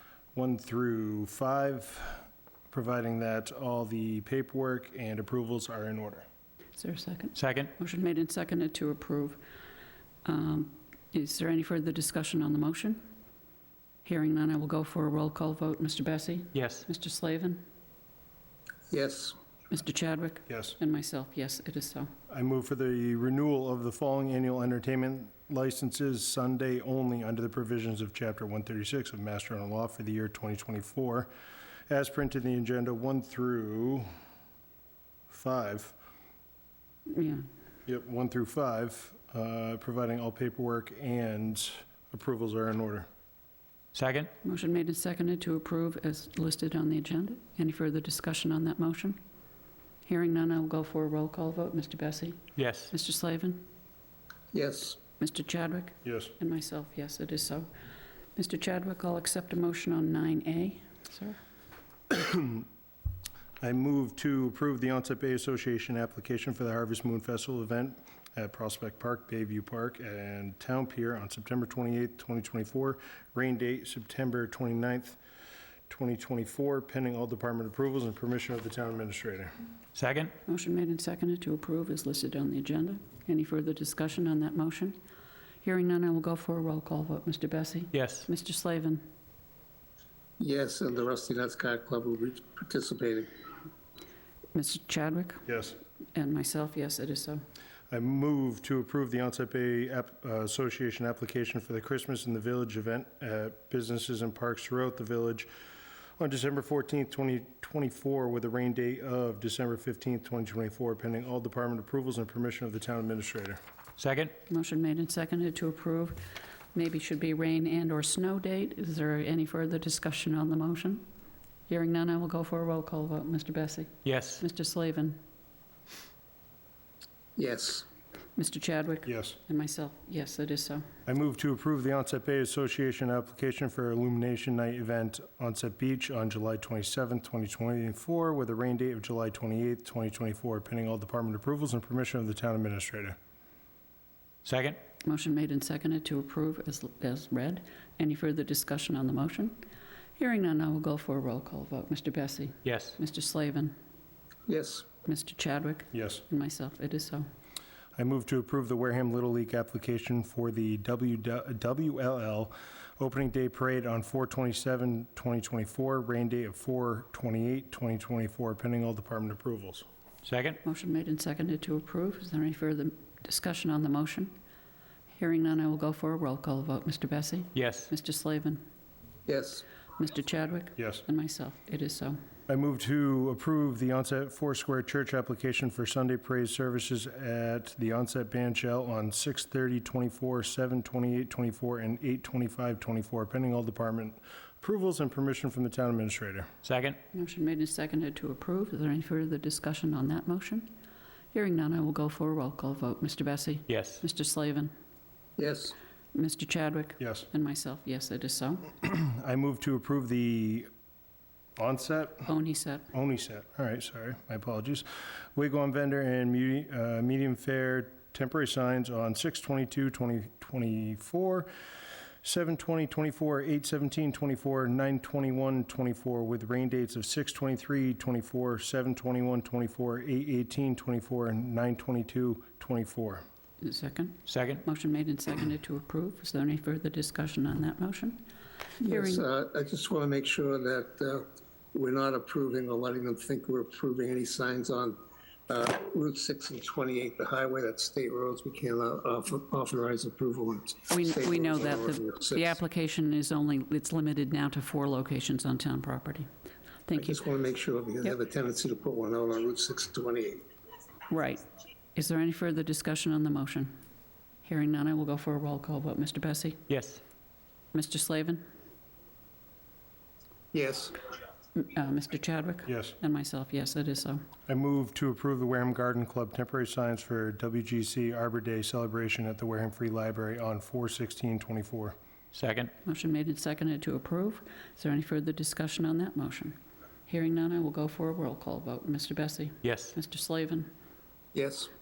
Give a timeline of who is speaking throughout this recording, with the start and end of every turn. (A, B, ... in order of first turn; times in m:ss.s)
0:00.3-0:06.2 A
0:06.8-0:09.4 B
0:07.4-0:07.7 C
0:10.2-0:13.0 B
0:14.0-0:17.6 B
0:16.5-0:16.8 C
0:18.9-0:19.4 D
0:19.7-0:22.1 B
0:20.5-0:20.8 A
0:22.3-0:31.3 A
0:31.9-0:34.1 A
0:35.3-0:35.9 A
0:37.1-0:37.4 B
0:37.9-0:43.1 A
0:43.9-0:44.3 C
0:44.4-0:49.2 B
0:50.0-0:53.6 B
0:52.6-0:52.9 C
0:54.5-0:55.0 D
0:55.2-0:57.7 B
0:56.0-0:56.3 A
0:58.4-1:01.4 B
1:02.1-1:02.7 A
1:03.6-1:15.2 A
1:15.9-1:19.5 A
1:20.0-1:20.3 C
1:20.4-1:25.0 B
1:25.6-1:29.0 B
1:27.9-1:28.3 C
1:30.4-1:33.3 D
1:34.5-1:35.4 B
1:35.5-1:35.8 A
1:36.2-1:37.4 B
1:37.9-1:45.5 A
1:46.2-1:53.6 A
1:54.0-1:54.3 C
1:54.5-2:01.1 B
2:01.7-2:05.2 B
2:04.0-2:04.4 C
2:07.4-2:07.8 D
2:08.4-2:10.8 B
2:09.1-2:09.4 A
2:11.1-2:23.2 A
2:24.4-2:24.8 C
2:25.0-2:29.6 B
2:30.2-2:33.8 B
2:32.6-2:33.0 C
2:34.5-2:34.8 D
2:35.0-2:37.2 B
2:35.9-2:36.2 A
2:38.0-2:49.8 A
2:50.2-2:50.6 C
2:50.6-2:54.3 B
2:55.2-2:58.6 B
2:57.6-2:57.9 C
2:59.3-2:59.6 D
3:00.0-3:02.2 B
3:00.8-3:01.0 A
3:02.5-3:16.5 A
3:16.6-3:17.0 C
3:17.1-3:20.7 B
3:21.3-3:24.7 B
3:23.7-3:24.0 C
3:25.4-3:25.8 D
3:26.1-3:28.7 B
3:27.0-3:27.2 A
3:28.8-3:30.7 A
3:31.6-3:32.3 A
3:32.2-3:32.9 B
3:32.9-3:41.5 A
3:42.2-3:53.2 A
3:53.6-3:58.2 B
3:54.3-3:54.6 C
3:58.8-4:12.6 D
3:58.8-3:59.2 B
4:10.9-4:16.3 B
4:16.9-4:17.2 B
4:16.9-4:20.4 D
4:21.1-4:21.4 B
4:21.9-4:23.8 B
4:24.4-4:26.6 B
4:26.7-4:27.0 C
4:27.7-4:28.4 B
4:30.5-4:31.0 D
4:31.6-4:34.2 B
4:32.7-4:32.9 A
4:34.5-4:41.9 A
4:42.3-4:42.7 C
4:42.8-4:50.7 B
4:49.6-4:49.9 C
4:51.3-4:51.7 D